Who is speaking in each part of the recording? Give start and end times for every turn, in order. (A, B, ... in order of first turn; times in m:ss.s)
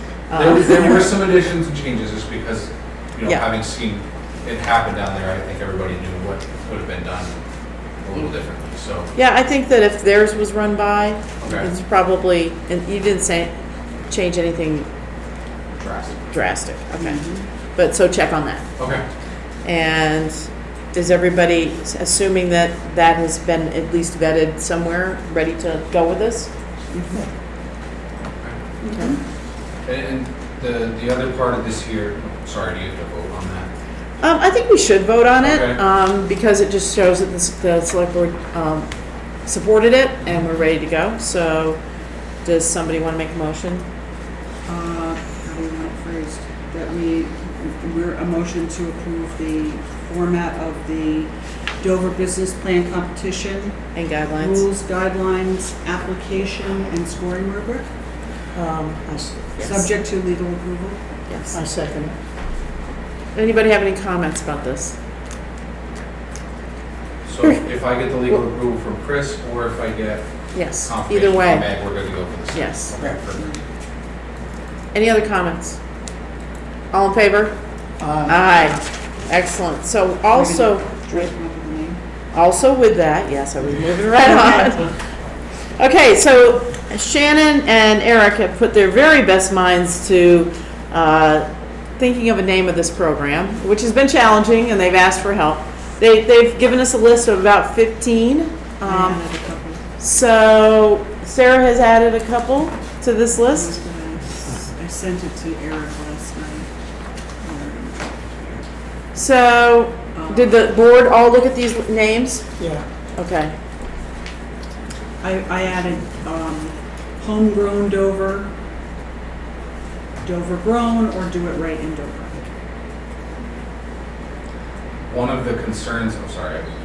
0:00.3-0:01.1 A
0:00.4-0:07.4 B
0:08.0-0:09.1 B
0:09.2-0:13.5 A
0:11.4-0:11.7 B
0:14.1-0:14.9 A
0:15.8-0:16.2 B
0:16.3-0:17.2 A
0:17.0-0:17.4 C
0:17.7-0:18.6 A
0:18.8-0:19.0 B
0:19.6-0:26.5 A
0:26.9-0:27.3 C
0:28.8-0:29.2 C
0:29.8-0:33.7 B
0:34.2-0:38.9 A
0:35.4-0:35.8 B
0:39.4-0:41.8 A
0:42.4-0:43.9 A
0:44.7-0:57.9 C
0:54.0-0:54.6 A
0:58.5-0:59.6 D
0:59.6-1:01.0 C
1:01.3-1:01.6 A
1:01.5-1:02.2 D
1:03.3-1:05.0 A
1:07.3-1:10.3 B
1:10.5-1:11.7 A
1:10.8-1:13.6 B
1:12.5-1:12.9 A
1:14.9-1:15.8 A
1:16.9-1:17.6 A
1:18.0-1:18.5 D
1:18.2-1:21.3 A
1:20.3-1:22.0 C
1:22.3-1:24.9 A
1:25.8-1:39.2 A
1:38.8-1:39.8 C
1:40.0-1:43.7 A
1:43.4-1:46.7 C
1:47.4-1:48.7 C
1:49.2-1:52.5 A
1:50.2-1:50.6 C
1:52.6-1:52.8 D
1:53.2-1:53.6 A
1:55.2-1:58.5 C
2:00.2-2:02.4 C
2:05.1-2:06.7 B